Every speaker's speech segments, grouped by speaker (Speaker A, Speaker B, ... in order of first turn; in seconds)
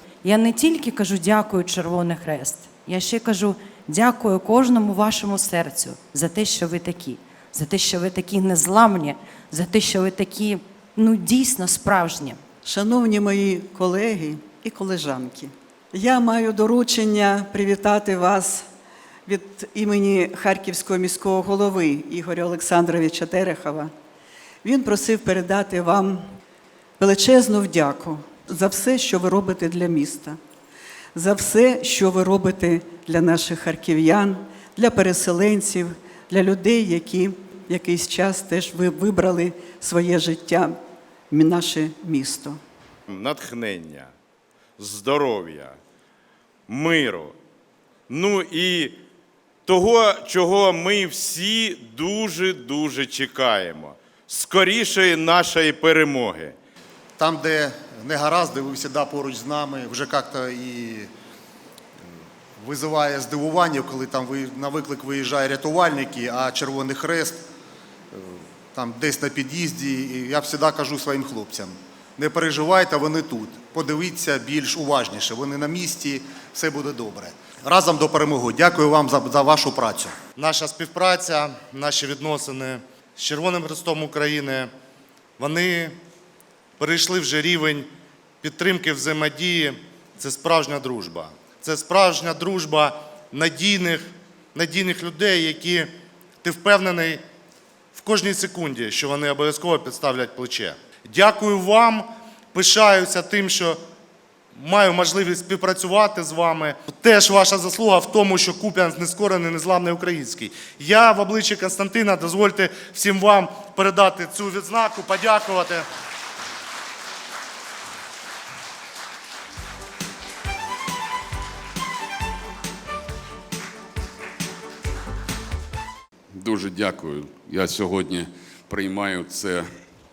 Speaker A: 0.2-12.4
Speaker B: 12.7-18.7, 19.2-23.9, 24.6-26.2, 27.0-30.4, 31.1-40.8, 41.3-42.6
Speaker C: 43.1-44.1, 44.8-45.8, 46.7-47.4, 48.1-49.0, 49.6-56.5
Speaker D: 57.2-61.1, 62.6-67.4, 68.1-80.1
Speaker E: 80.4-84.7, 85.4-86.0, 86.8-87.9, 88.4-95.9, 96.4-97.2, 97.9-103.8, 104.5-115.8
Speaker F: 126.3-129.8